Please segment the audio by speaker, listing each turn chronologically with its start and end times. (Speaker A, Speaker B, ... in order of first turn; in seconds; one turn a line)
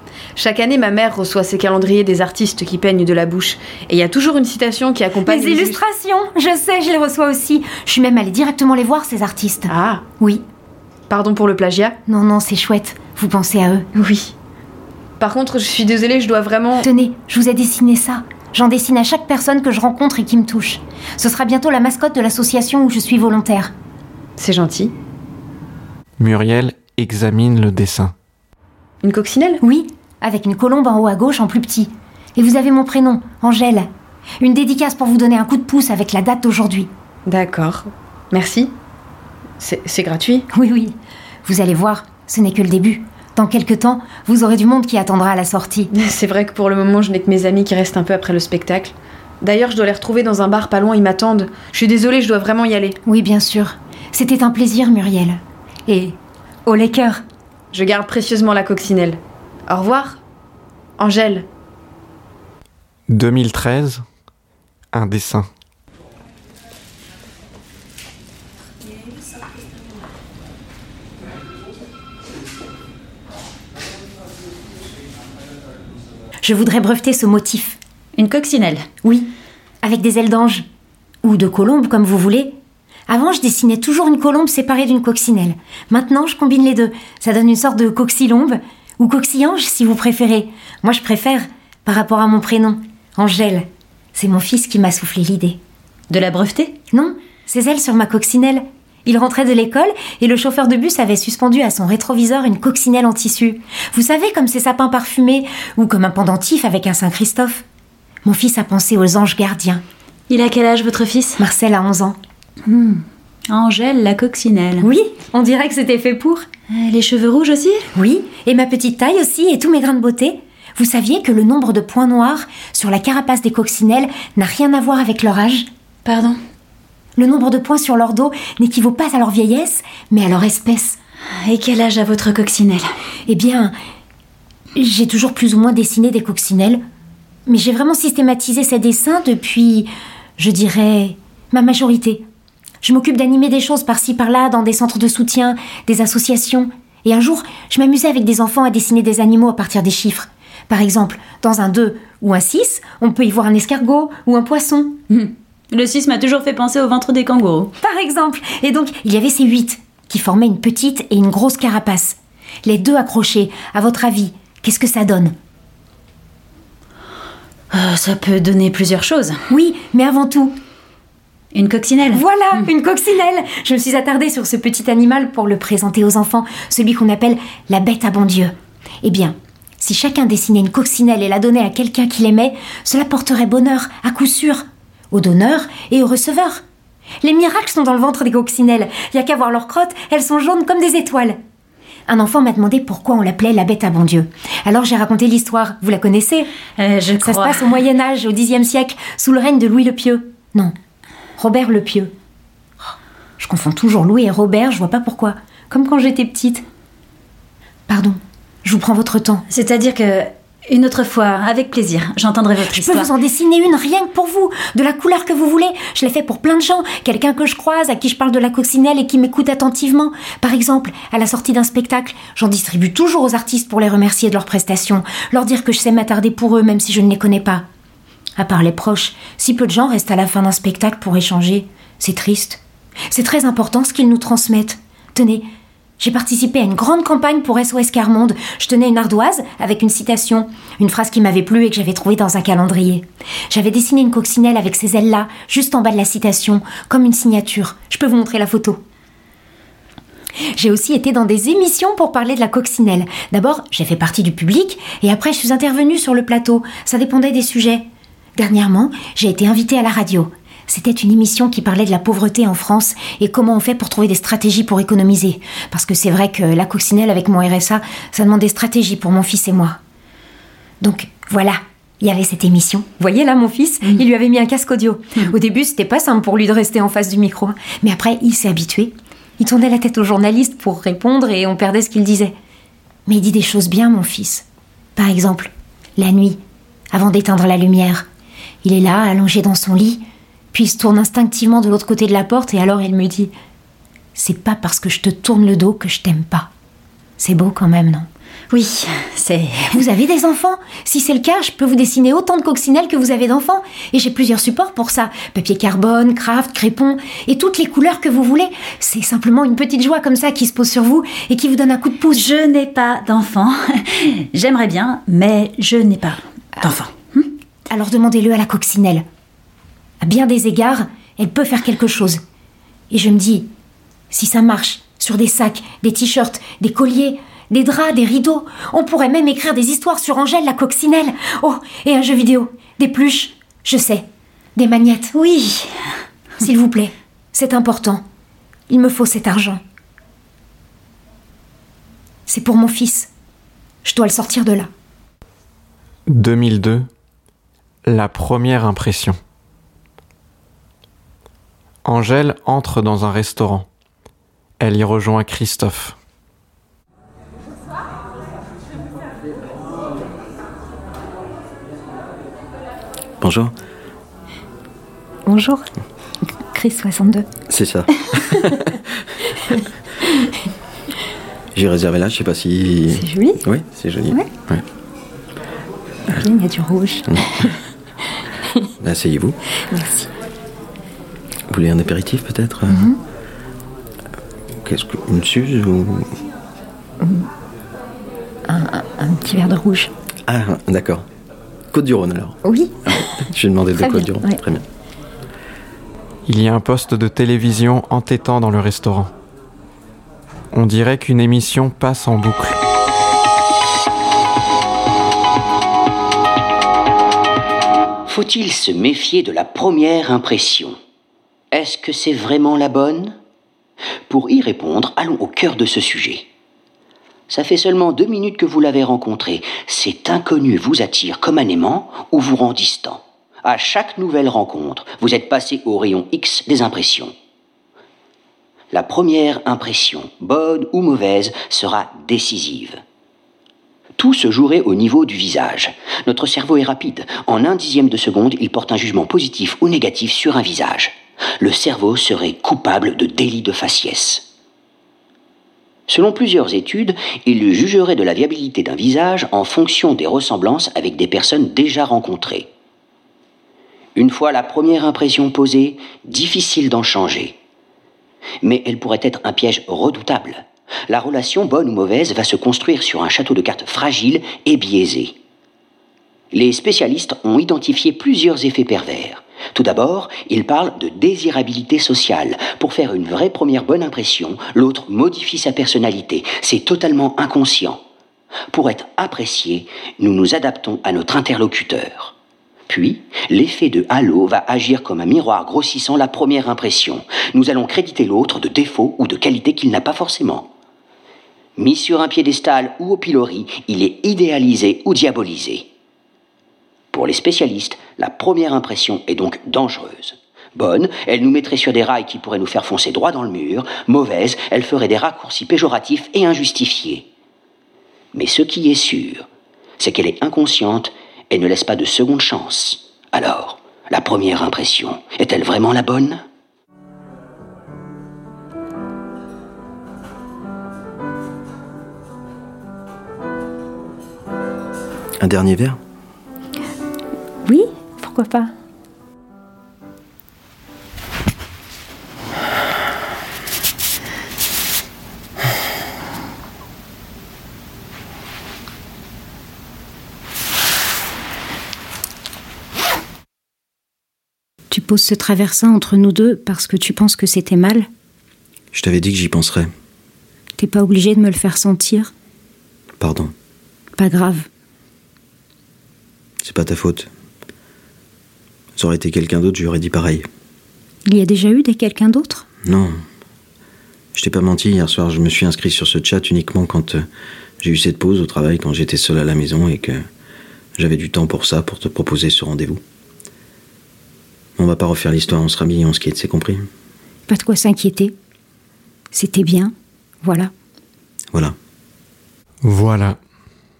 Speaker A: 0.3-5.8
Speaker B: 5.2-10.4
Speaker A: 9.7-10.0
Speaker A: 11.1-11.9
Speaker B: 12.1-13.9
Speaker A: 13.9-14.3
Speaker A: 15.2-16.8
Speaker B: 16.8-23.7
Speaker A: 24.4-24.9
Speaker C: 26.2-28.1
Speaker A: 29.0-29.6
Speaker B: 29.6-33.9
Speaker B: 34.4-36.9
Speaker A: 37.2-38.7
Speaker A: 39.6-40.4
Speaker B: 40.5-45.9
Speaker A: 45.9-53.0
Speaker B: 53.0-57.2
Speaker A: 57.7-60.2
Speaker A: 61.0-61.4
Speaker C: 63.1-64.0
Speaker C: 64.9-65.5
Speaker B: 76.4-77.8
Speaker D: 78.2-78.9
Speaker B: 79.0-80.6
Speaker B: 81.2-82.5
Speaker B: 83.1-95.6
Speaker D: 96.1-96.8
Speaker B: 96.9-107.6
Speaker B: 108.2-109.8
Speaker D: 110.3-111.4
Speaker B: 111.4-112.2
Speaker D: 112.7-114.9
Speaker B: 114.8-116.5
Speaker D: 116.7-117.9
Speaker B: 117.9-125.7
Speaker D: 126.0-126.4
Speaker B: 127.2-131.0
Speaker D: 131.4-132.9
Speaker B: 133.3-133.7
Speaker B: 134.8-136.8
Speaker B: 137.5-142.2
Speaker B: 142.8-155.0
Speaker D: 155.1-157.7
Speaker B: 157.8-165.3
Speaker D: 167.7-169.4
Speaker B: 169.5-170.6
Speaker D: 171.5-172.7
Speaker B: 172.1-186.6
Speaker B: 187.2-191.4
Speaker B: 192.1-196.5
Speaker D: 196.8-197.8
Speaker B: 197.2-200.7
Speaker B: 201.4-202.1
Speaker B: 203.4-206.6
Speaker B: 207.9-209.4
Speaker D: 209.5-213.1
Speaker B: 212.7-227.7
Speaker B: 228.4-235.4
Speaker B: 236.0-248.8
Speaker B: 250.5-269.8
Speaker B: 270.8-282.3
Speaker B: 283.1-284.4
Speaker B: 284.9-286.4
Speaker B: 286.9-288.1
Speaker B: 288.6-293.3
Speaker B: 294.1-296.5
Speaker B: 297.2-298.1
Speaker D: 298.5-299.9
Speaker B: 299.7-312.2
Speaker D: 312.1-317.3
Speaker B: 317.7-319.0
Speaker B: 320.0-322.2
Speaker B: 322.9-323.5
Speaker B: 324.1-335.8
Speaker B: 336.4-338.0
Speaker B: 338.7-339.6
Speaker B: 342.3-343.1
Speaker B: 343.8-344.7
Speaker C: 346.1-346.9
Speaker C: 347.8-349.2
Speaker C: 351.8-353.7
Speaker C: 354.6-355.9
Speaker E: 363.2-363.5
Speaker B: 365.2-365.7
Speaker B: 366.5-367.3
Speaker E: 367.5-368.6
Speaker E: 371.5-374.6
Speaker B: 372.9-373.4
Speaker B: 376.1-377.5
Speaker E: 377.1-377.3
Speaker E: 378.8-379.4
Speaker B: 379.7-380.1
Speaker E: 381.5-382.9
Speaker B: 382.7-383.0
Speaker E: 384.6-386.1
Speaker B: 387.0-387.3
Speaker B: 388.5-389.9
Speaker E: 390.2-391.0
Speaker E: 391.7-394.6
Speaker B: 392.4-394.4
Speaker C: 396.2-399.1
Speaker C: 400.5-402.6
Speaker F: 408.1-410.8
Speaker F: 411.5-413.1
Speaker F: 414.1-416.3
Speaker F: 417.3-427.1
Speaker F: 428.7-432.8
Speaker F: 434.0-444.3
Speaker F: 445.9-452.5
Speaker F: 453.9-457.4
Speaker F: 458.4-465.2
Speaker F: 466.3-477.8
Speaker F: 478.5-482.1
Speaker F: 482.7-490.5
Speaker F: 491.6-495.7
Speaker F: 496.9-507.1
Speaker F: 508.1-509.3
Speaker F: 509.8-516.2
Speaker E: 525.2-525.8
Speaker B: 527.4-528.5
Speaker B: 544.7-547.9
Speaker E: 548.7-549.7
Speaker B: 550.6-552.1
Speaker E: 553.0-553.3
Speaker B: 554.0-554.5
Speaker E: 556.4-557.1
Speaker E: 558.8-560.3
Speaker B: 561.0-562.5
Speaker E: 562.6-563.0
Speaker E: 564.1-567.0
Speaker E: 567.6-570.0
Speaker E: 570.8-572.8
Speaker E: 574.6-576.7
Speaker B: 577.3-578.1
Speaker B: 579.1-580.5
Speaker C: 582.6-583.2